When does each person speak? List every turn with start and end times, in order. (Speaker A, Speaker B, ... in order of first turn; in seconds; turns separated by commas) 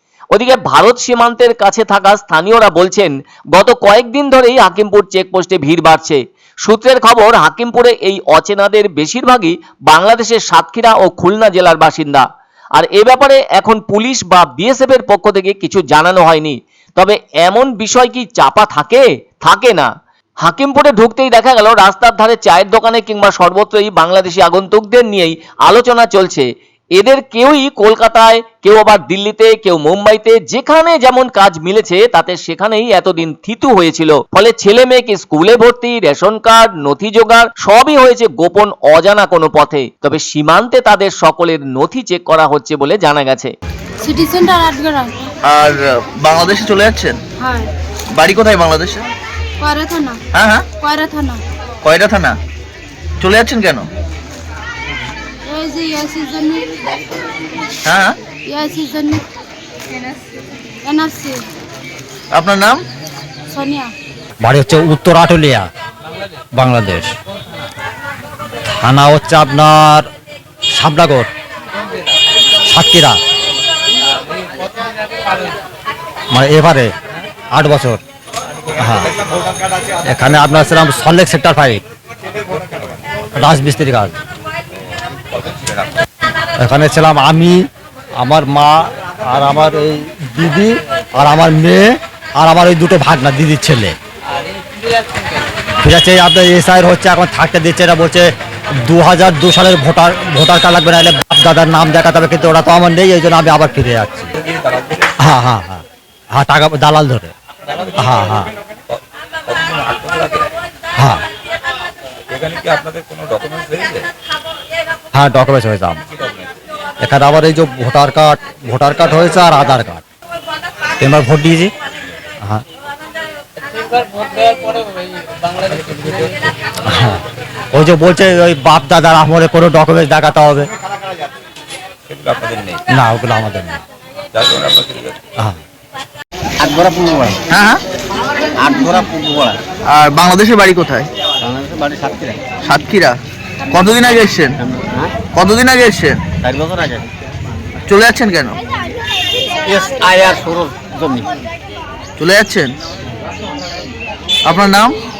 Speaker A: 0.3-12.3, Speaker A: 12.8-19.9, Speaker A: 20.4-26.5, Speaker A: 27.0-43.5, Speaker B: 44.0-45.2, Speaker C: 45.5-47.2, Speaker B: 47.4-47.7, Speaker C: 48.1-49.0, Speaker B: 49.6-50.2, Speaker C: 50.4-50.7, Speaker B: 50.8-51.4, Speaker C: 51.8-52.4, Speaker C: 53.2-53.9, Speaker B: 55.5-56.8, Speaker C: 57.9-58.2, Speaker B: 58.5-59.3, Speaker B: 60.8-61.4, Speaker C: 62.3-62.8, Speaker B: 63.5-63.9, Speaker D: 64.4-65.7, Speaker D: 66.6-67.1, Speaker D: 68.7-70.1, Speaker D: 70.7-71.3, Speaker D: 72.7-73.2, Speaker D: 76.3-76.9, Speaker D: 77.5-78.0, Speaker D: 78.8-79.1, Speaker D: 80.1-81.8, Speaker D: 83.3-84.2, Speaker D: 86.6-87.7, Speaker D: 88.2-94.0, Speaker D: 95.8-98.3, Speaker D: 98.8-104.3, Speaker E: 104.5-105.1, Speaker D: 105.2-107.3, Speaker D: 108.0-108.5, Speaker E: 109.5-110.5, Speaker D: 111.0-111.2, Speaker E: 112.3-114.1, Speaker D: 115.1-116.0, Speaker D: 117.0-120.0, Speaker D: 121.0-121.7, Speaker E: 125.6-126.5, Speaker D: 126.8-130.7, Speaker E: 132.1-132.8, Speaker D: 132.9-133.8, Speaker E: 134.3-135.2, Speaker F: 136.6-137.4, Speaker C: 137.5-137.8, Speaker F: 138.5-139.6, Speaker C: 139.9-141.1, Speaker F: 141.4-142.4, Speaker C: 142.7-143.2, Speaker C: 143.7-144.6, Speaker F: 144.6-145.2, Speaker C: 145.3-146.2, Speaker F: 146.4-147.1, Speaker C: 147.9-148.6, Speaker F: 149.7-151.4, Speaker C: 152.2-152.8, Speaker C: 154.5-155.0